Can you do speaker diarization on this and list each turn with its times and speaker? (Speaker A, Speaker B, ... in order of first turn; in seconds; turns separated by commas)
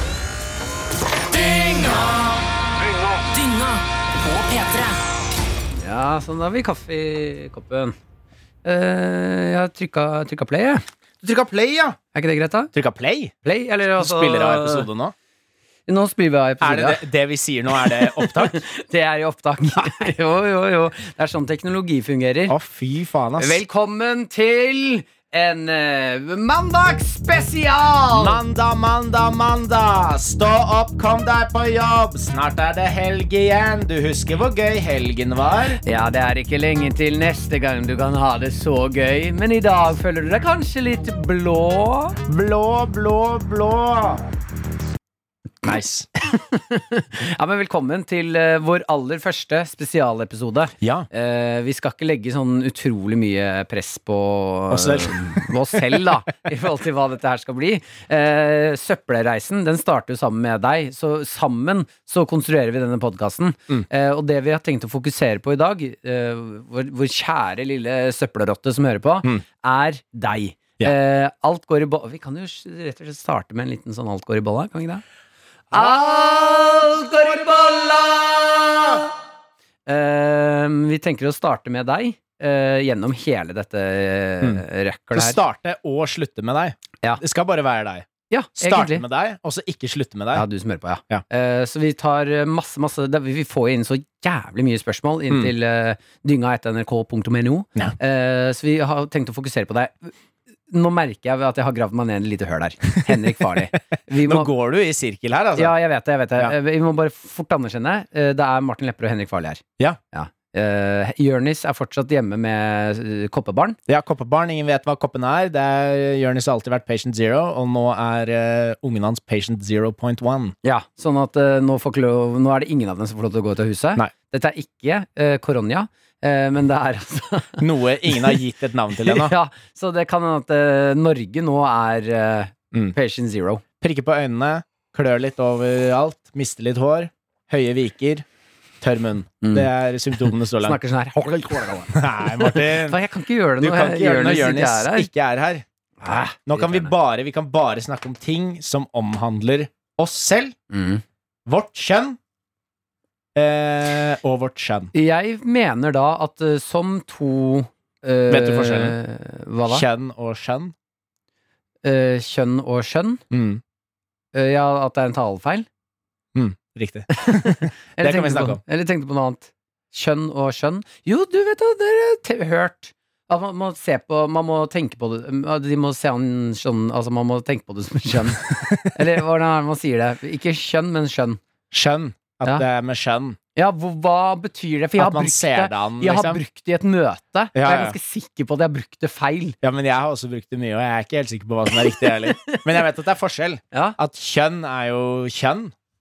Speaker A: 1.3-2.3, Speaker A: 3.1-5.1, Speaker B: 5.8-8.0, Speaker B: 8.6-10.8, Speaker C: 11.2-12.0, Speaker B: 12.1-12.7, Speaker C: 12.7-13.3, Speaker B: 13.4-14.9, Speaker C: 14.0-15.1, Speaker B: 15.9-17.0, Speaker C: 16.6-18.6, Speaker B: 17.8-22.6, Speaker C: 22.5-23.6, Speaker B: 23.4-28.4, Speaker C: 28.1-35.8, Speaker B: 35.8-42.2, Speaker C: 42.3-44.2, Speaker C: 45.6-46.1, Speaker B: 46.2-75.0, Speaker C: 50.8-51.1, Speaker C: 54.7-56.0, Speaker B: 75.7-79.1, Speaker B: 79.9-85.4, Speaker C: 85.2-90.5, Speaker B: 88.3-89.0, Speaker B: 90.3-100.2, Speaker B: 100.7-104.5, Speaker C: 103.0-103.3, Speaker C: 104.2-105.8, Speaker B: 105.6-113.8, Speaker C: 113.9-120.5, Speaker B: 120.6-128.4, Speaker C: 127.6-129.3, Speaker B: 129.0-133.6, Speaker C: 133.8-138.2, Speaker C: 138.8-140.8, Speaker B: 139.4-139.7, Speaker B: 140.6-145.1, Speaker C: 141.9-143.0, Speaker C: 143.6-145.6, Speaker B: 146.0-146.9, Speaker C: 146.5-150.6, Speaker B: 150.7-151.0, Speaker C: 151.5-152.2, Speaker C: 153.4-154.9, Speaker B: 154.9-159.8, Speaker C: 158.3-158.9, Speaker C: 159.7-160.7, Speaker B: 161.8-163.2, Speaker C: 163.3-163.6, Speaker B: 164.3-165.7, Speaker C: 166.3-168.6, Speaker B: 167.1-181.4, Speaker C: 181.7-183.4, Speaker B: 183.6-189.6, Speaker C: 185.0-186.4, Speaker C: 187.6-188.0, Speaker C: 189.6-195.7, Speaker B: 191.7-192.8